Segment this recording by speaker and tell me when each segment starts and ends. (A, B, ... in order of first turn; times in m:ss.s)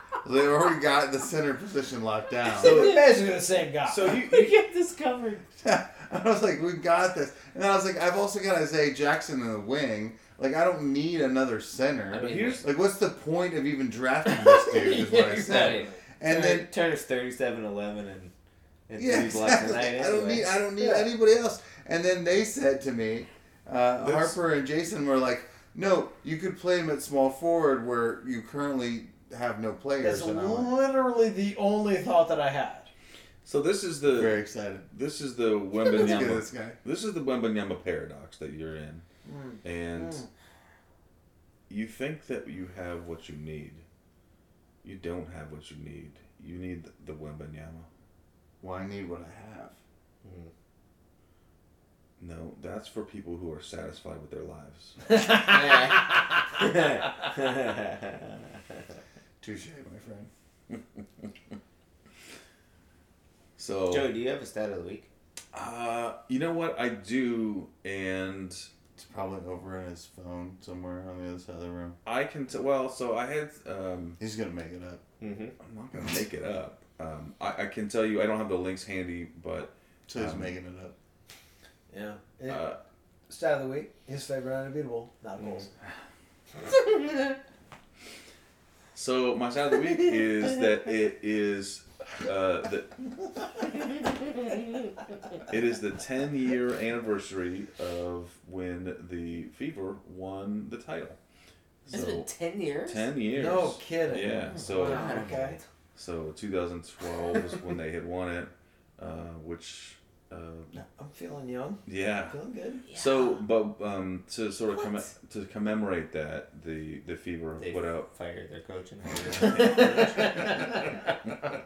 0:00.2-0:02.9 A
0:02.6-0:04.2 B
0:02.6-0:03.0 C
0:03.8-0:04.6 C
0:04.0-0:05.4 D
0:05.6-0:16.7 A
0:12.1-0:12.7 D
0:12.1-0:12.6 C
0:14.7-0:16.0 B
0:14.7-0:18.3 D
0:18.9-0:20.5 D
0:19.0-0:30.7 A
0:20.8-0:21.1 B
0:24.0-0:24.4 C
0:30.0-0:32.9 B
0:33.4-0:39.0 C
0:34.1-0:34.9 A
0:35.9-0:36.8 A
0:39.2-0:40.3 B
0:39.6-0:40.2 C
0:41.7-0:43.8 C
0:44.8-0:47.9 C
0:48.6-0:49.8 A
0:50.2-0:50.5 D
0:52.2-0:55.0 C
0:55.1-0:56.0 B
0:55.4-0:58.8 D
0:59.4-1:00.3 A
1:03.6-1:04.1 C
1:03.9-1:05.1 D
1:05.5-1:08.7 C
1:09.0-1:12.0 A
1:12.0-1:14.2 C
1:14.2-1:15.0 A
1:15.2-1:15.5 D
1:15.6-1:20.5 C
1:20.1-1:20.9 A
1:21.9-1:22.6 B
1:22.5-1:22.8 C
1:23.3-1:25.7 B
1:28.9-1:33.0 C
1:35.5-1:41.2 C
1:41.9-1:43.1 D
1:41.9-1:45.3 C
1:43.3-1:45.6 B
1:44.1-1:45.6 D
1:45.9-1:50.7 C
1:50.7-1:52.8 B
1:51.8-1:52.4 C
1:52.9-1:53.4 D
1:52.9-1:58.1 C
1:54.7-1:55.0 D
1:57.6-2:00.8 D
1:59.8-2:00.5 B